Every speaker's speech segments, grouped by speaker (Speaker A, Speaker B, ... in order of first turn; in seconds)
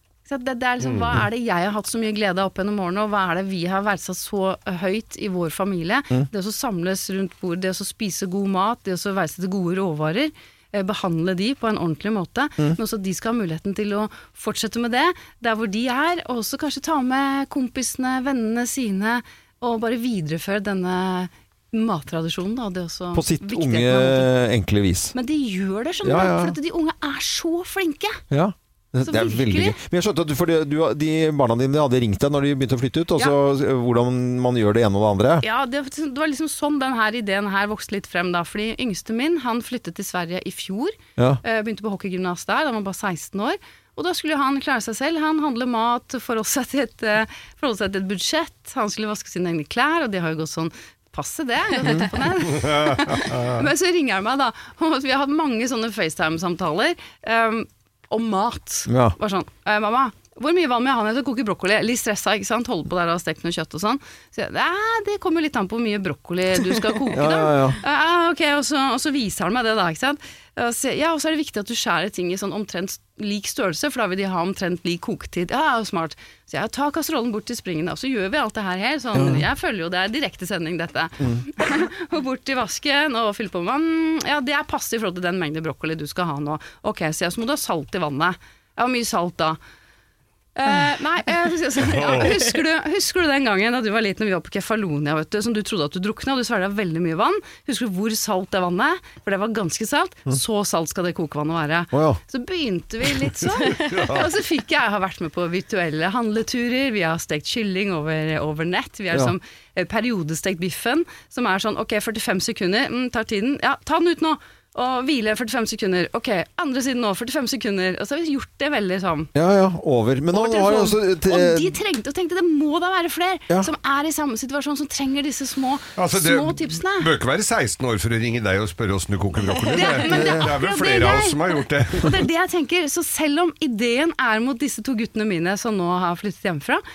Speaker A: 0.3-24.3, 25.1-28.2, 29.0-29.8, 35.4-89.6, 90.6-119.3, 120.3-127.1, 129.6-136.8
Speaker B: 23.1-25.1, 26.0-26.6, 28.3-35.5, 51.8-52.1, 58.9-59.1, 67.1-67.8, 79.2-79.4, 81.2-81.5, 101.9-102.2, 119.3-121.8
Speaker C: 92.0-92.4, 103.8-104.3, 126.0-132.2